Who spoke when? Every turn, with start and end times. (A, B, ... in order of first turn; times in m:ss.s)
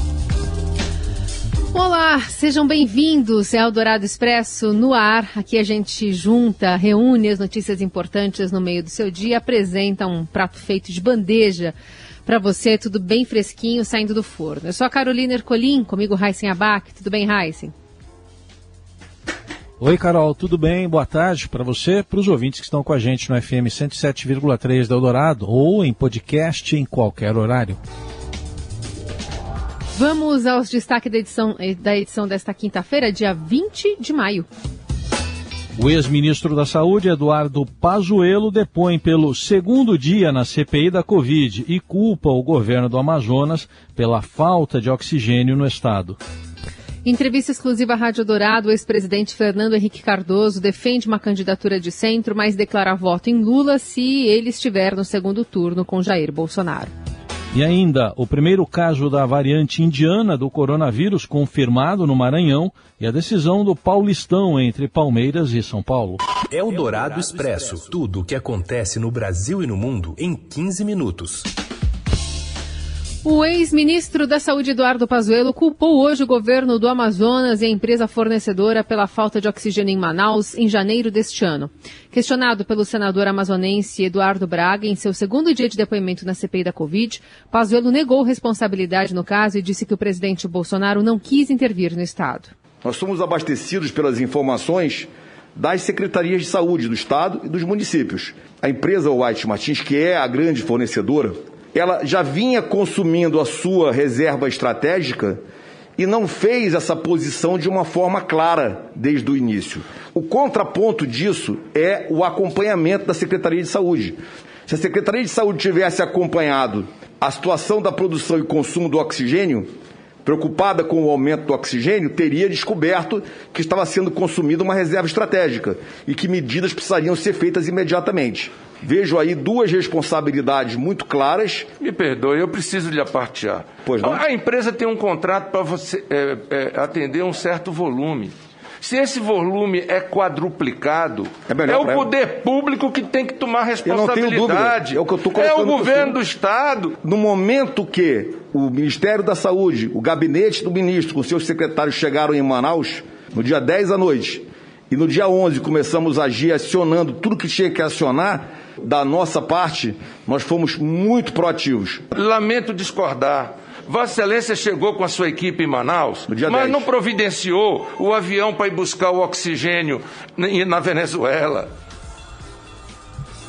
0:01.7-0:17.7 A
0:19.8-0:27.8 B
0:29.9-0:34.5 A
0:35.8-0:46.2 B
0:47.0-0:56.9 A
0:57.5-1:06.2 B
1:06.5-1:11.5 C
1:13.2-1:32.5 A
1:32.8-1:45.3 D
1:46.0-1:54.1 D
1:54.7-1:59.6 D
2:00.2-2:11.6 D
2:11.8-2:26.9 E
2:13.8-2:14.2 D
2:21.5-2:22.0 D
2:23.8-2:26.1 D
2:27.0-2:42.0 D
2:42.1-2:51.7 E
2:46.3-2:46.8 D